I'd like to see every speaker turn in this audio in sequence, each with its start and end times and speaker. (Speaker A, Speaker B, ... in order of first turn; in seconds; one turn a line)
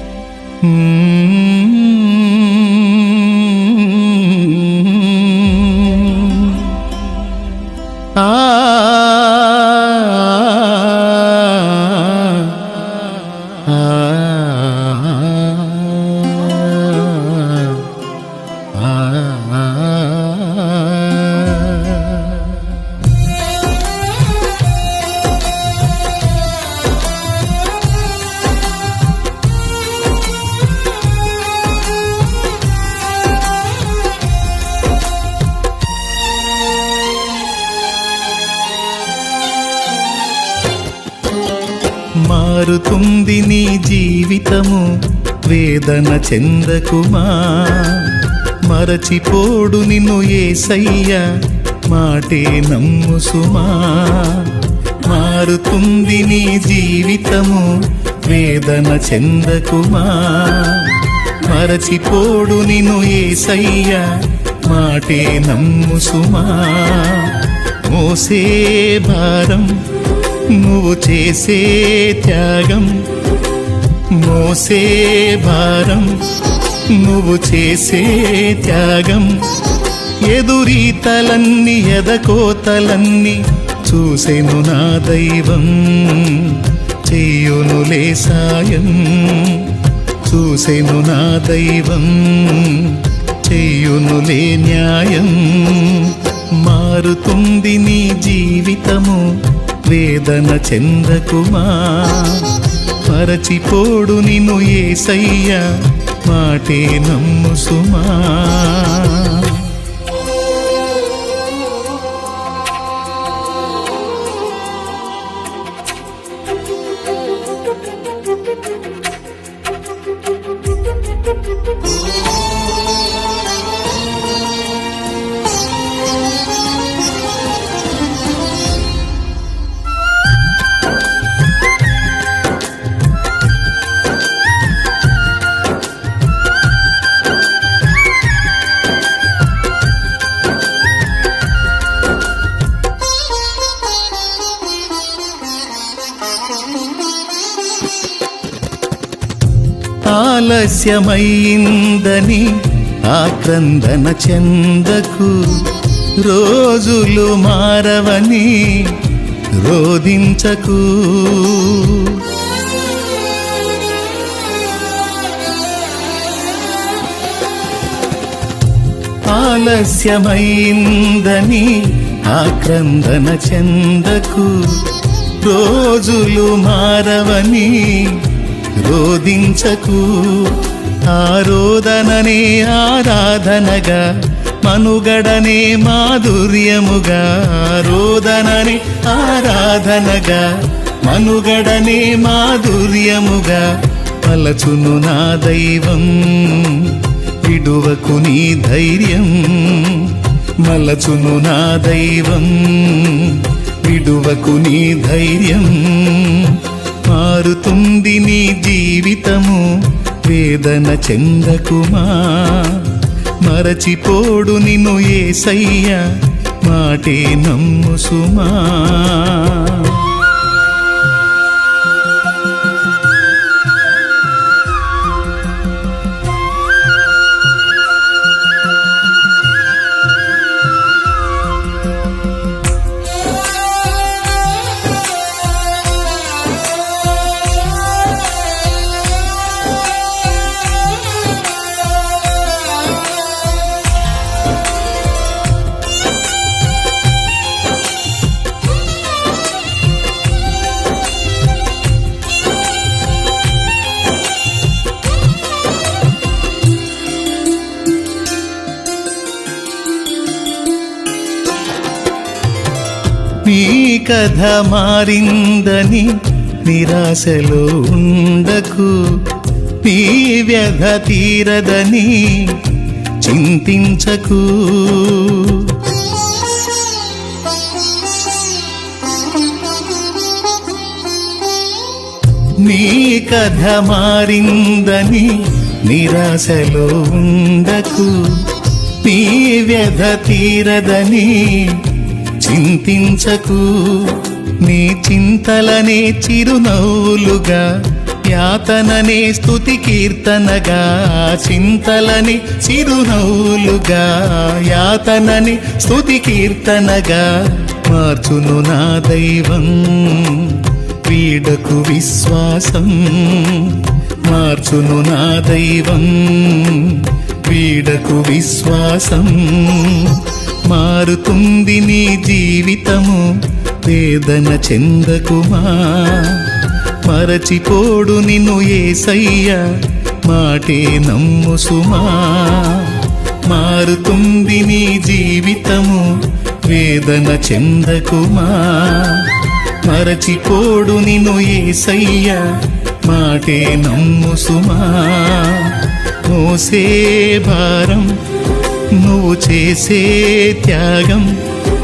Speaker A: 0.6-6.8
Speaker A: 8.1-12.8
Speaker A: 13.6-17.8
Speaker A: 18.7-22.5
Speaker A: 42.2-73.3
Speaker A: 73.9-109.8
Speaker A: 150.0-162.2
Speaker A: 169.2-220.1
Speaker A: 263.4-275.8
Speaker A: 282.6-348.2
Speaker A: 348.9-351.4